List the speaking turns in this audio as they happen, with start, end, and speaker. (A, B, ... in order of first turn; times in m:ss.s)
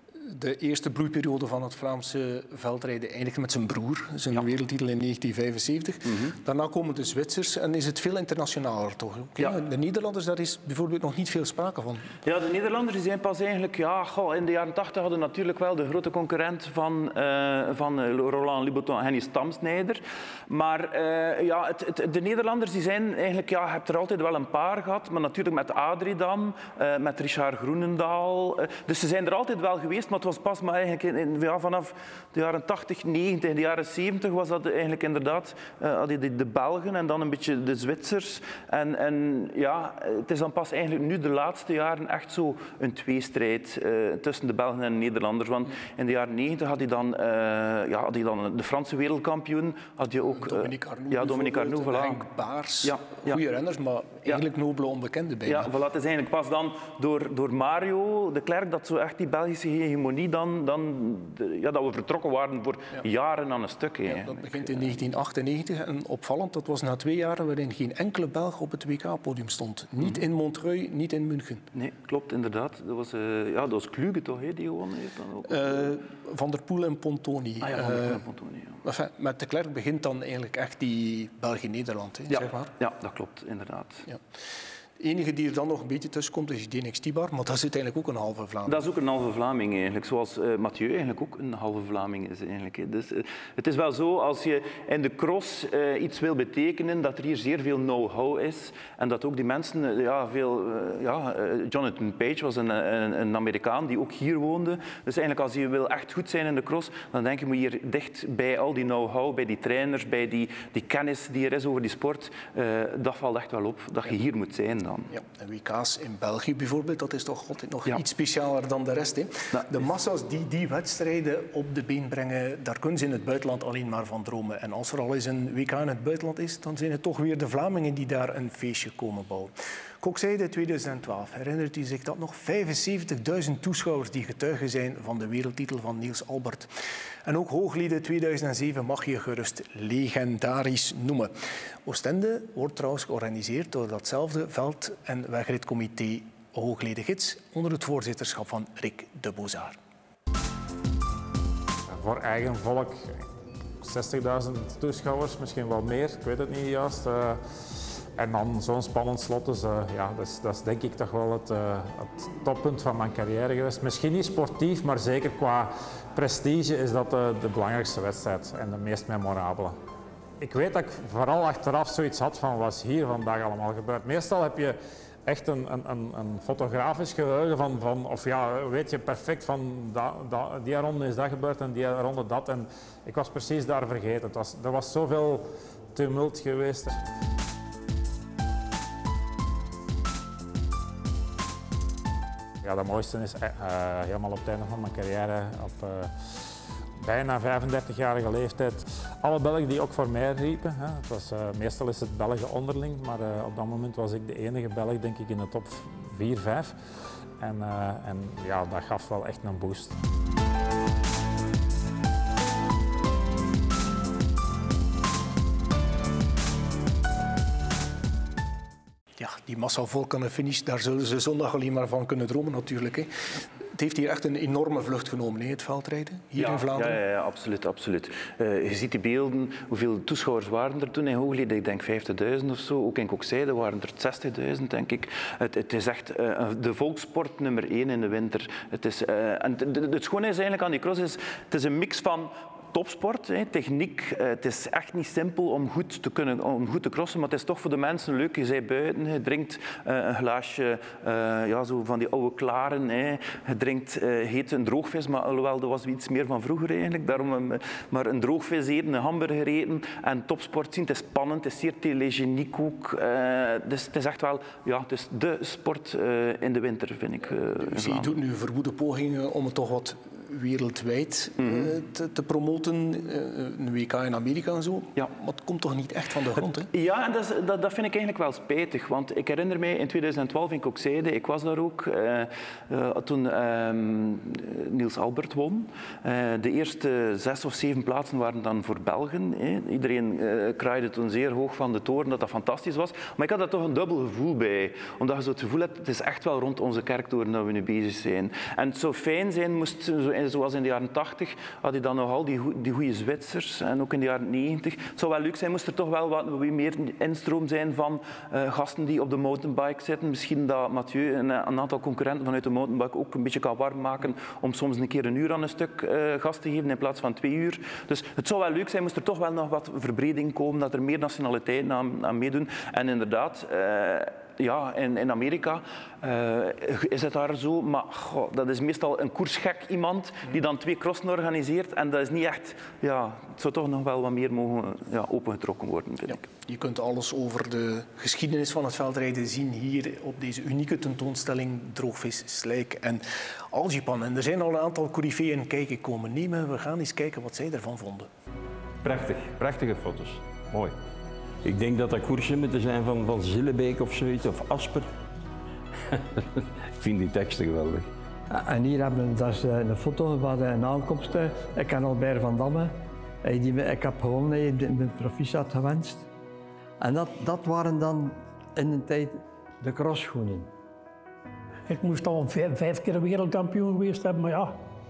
0:00.3-0:12.1 A
0:06.1-0:06.3 B
0:12.2-0:52.2 B
0:50.4-0:55.7 A
0:52.8-0:53.4 B
0:55.4-1:04.9 B
1:04.1-1:11.6 A
1:11.7-1:15.9 B
1:15.5-1:18.2 A
1:17.6-1:18.8 B
1:18.8-1:22.7 A
1:22.3-1:24.0 B
1:25.0-1:28.8 A
1:28.6-1:55.1 B
1:55.1-2:16.7 A
2:17.2-2:21.3 A
2:21.8-2:29.8 A
2:31.9-2:33.2 C
2:33.8-2:37.4 C
2:38.2-2:49.8 C
2:50.4-3:07.0 C
3:12.6-3:16.1 C
3:17.0-3:26.7 C
3:27.4-3:29.9 C
3:39.2-3:43.1 A
3:43.7-3:47.0 A
3:46.4-4:28.1 B
4:27.7-4:36.7 A
4:31.4-4:31.7 B
4:36.7-5:36.2 B
5:36.4-5:48.1 A
5:48.8-5:50.7 D
5:51.4-5:54.9 D
5:55.9-5:57.9 D
5:58.3-6:06.1 E
6:06.8-6:10.5 E
6:11.7-6:14.6 F